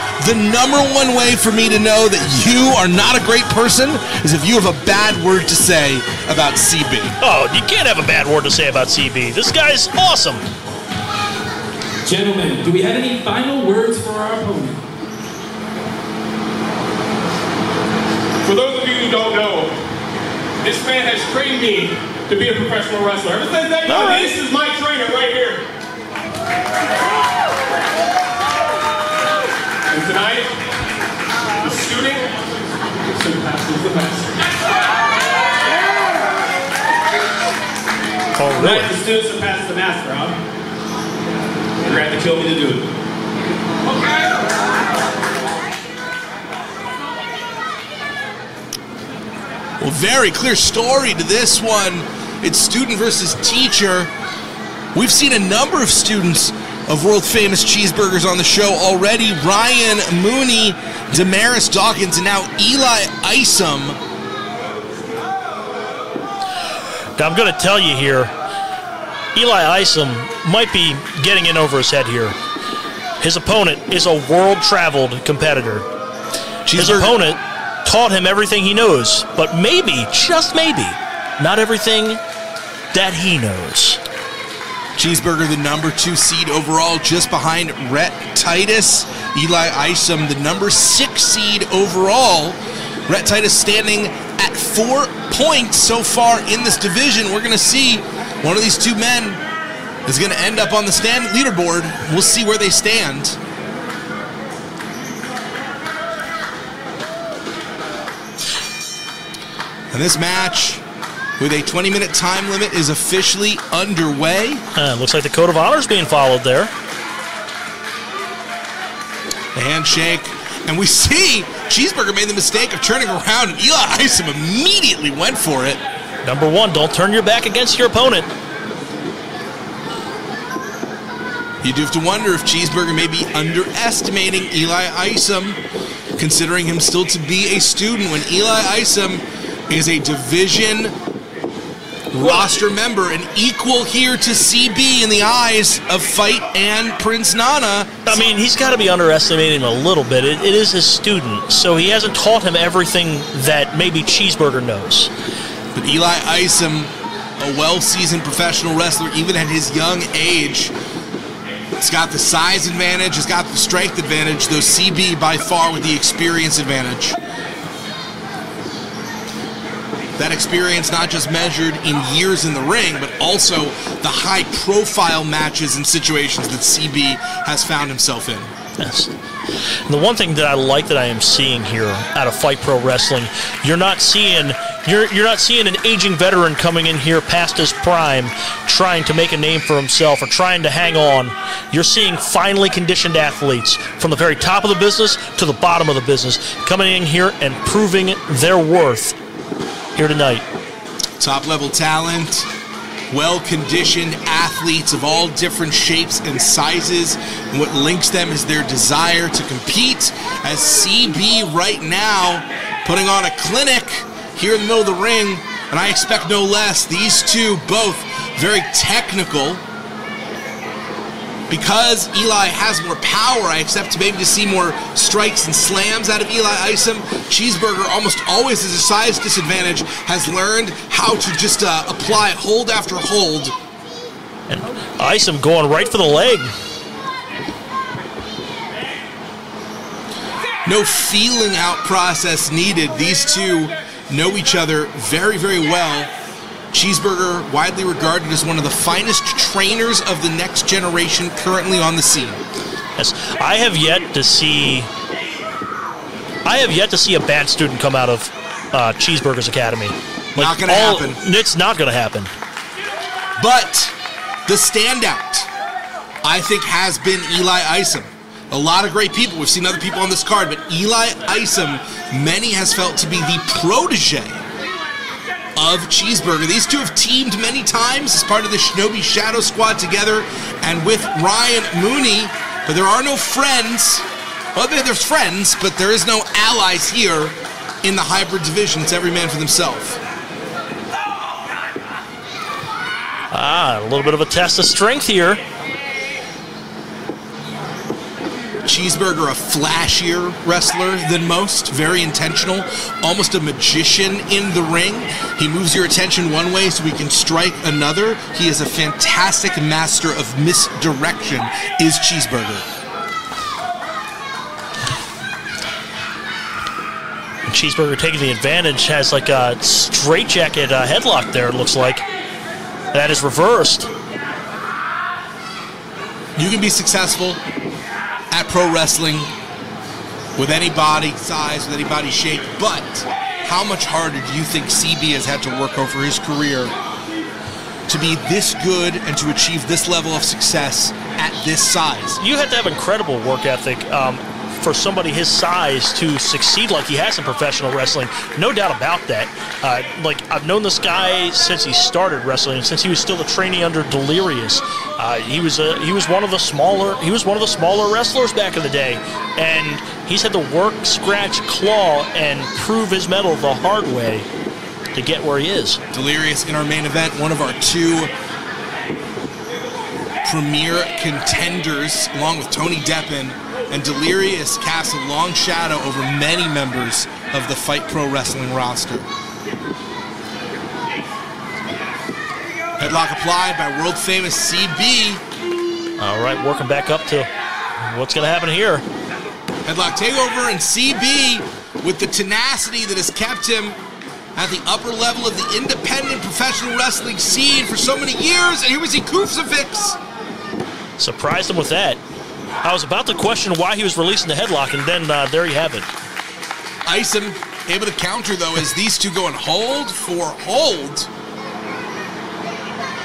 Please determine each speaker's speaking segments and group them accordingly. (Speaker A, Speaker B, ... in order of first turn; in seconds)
Speaker A: 0.2-7.2, 49.8-54.1, 54.9-64.0, 76.6-77.2, 85.0-99.4, 100.0-103.4, 109.9-110.8, 111.4-114.6, 119.5-125.8, 131.6-135.6, 136.2-140.9, 142.1-148.2, 155.7-160.7, 161.8-167.2, 170.2-178.5, 201.2-202.5, 203.1-219.6, 221.5-233.5, 240.6-246.1, 246.7-252.4, 260.4-261.2, 263.4-263.9, 264.4-265.5, 266.2-274.4, 275.6-290.0, 298.6-312.7, 326.4-327.4, 328.3-329.3, 330.4-336.7, 337.9-342.2, 365.9-368.1, 370.2-379.1, 382.8-385.2, 389.6-393.8, 394.4-400.0, 406.9-411.1
Speaker B: 7.2-10.5, 23.9-24.3, 38.4-38.9, 67.2-68.3, 69.3-72.3, 73.2-75.9, 76.7-82.2, 82.9-84.0, 114.7-116.7, 126.2-128.3, 142.2-142.5, 148.1-155.1, 178.8-179.1, 179.9-199.2, 199.9-200.4, 234.5-236.5, 253.0-254.9, 256.4-262.3, 293.3-295.4, 317.5-322.1, 322.9-323.9, 342.2-364.3, 364.9-365.8, 386.0-387.3, 387.8-388.8, 401.0-402.0, 402.6-405.9
Speaker C: 12.0-14.8
Speaker D: 18.4-19.8, 20.6-25.6, 29.9-30.6, 31.6-32.4, 33.1-34.3, 38.5-40.4, 41.8-42.9